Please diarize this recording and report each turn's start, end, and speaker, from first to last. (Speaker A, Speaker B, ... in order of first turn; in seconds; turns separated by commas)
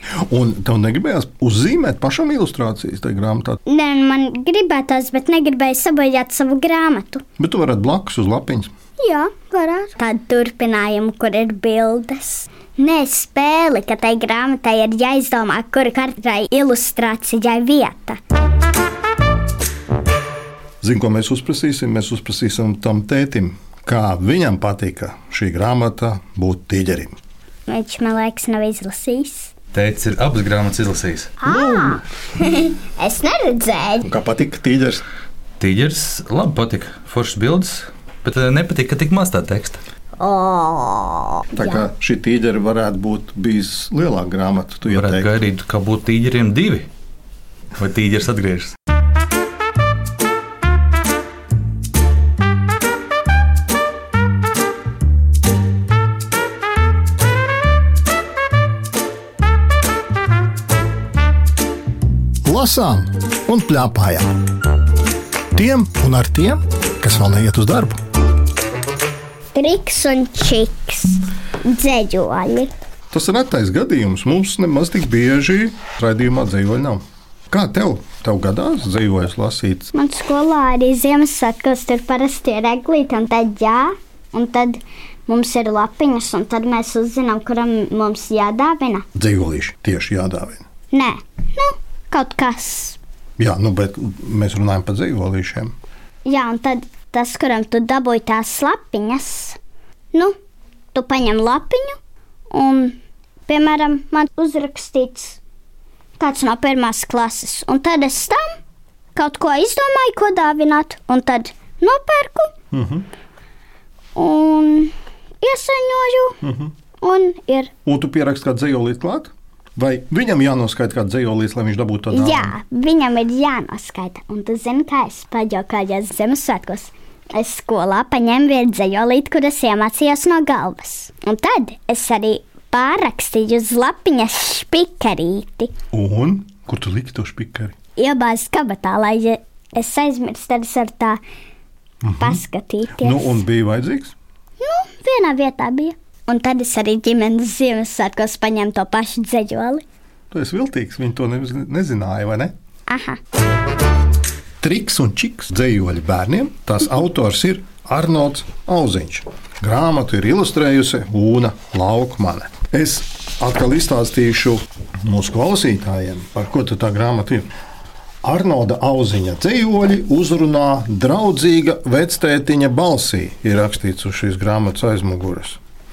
Speaker A: 0.3-3.6, Speaker B: 3.7-7.2, Speaker A: 7.4-8.7, Speaker B: 9.0-18.2, Speaker A: 20.8-27.2, Speaker B: 27.7-29.5, Speaker C: 29.7-31.4, Speaker B: 31.4-34.1, Speaker A: 31.4-32.0, Speaker A: 34.0-35.0, Speaker C: 35.6-39.8, Speaker B: 40.2-41.8, Speaker A: 41.5-45.3, Speaker C: 44.9-46.9, Speaker C: 47.8-48.7, Speaker A: 62.5-64.3, Speaker A: 65.5-68.0, Speaker B: 69.5-72.7, Speaker A: 73.1-79.9, Speaker B: 79.9-89.1, Speaker A: 89.2-90.6, Speaker B: 90.9-93.0, Speaker A: 93.4-95.8, Speaker B: 96.2-99.6, Speaker B: 100.9-102.0, Speaker B: 102.5-105.4, Speaker B: 106.2-108.6, Speaker B: 109.2-112.5, Speaker A: 112.7-113.1, Speaker B: 114.2-116.4, Speaker A: 116.4-116.7, Speaker B: 117.0-117.7, Speaker A: 117.8-122.5, Speaker B: 122.1-135.7, Speaker A: 135.9-137.8, Speaker B: 138.0-141.2, Speaker A: 142.0-142.4, Speaker B: 142.2-143.4, Speaker A: 143.0-144.2, Speaker B: 144.6-149.8, Speaker A: 150.3-152.5, Speaker B: 152.9-153.2, Speaker A: 154.6-167.5, Speaker A: 168.2-175.6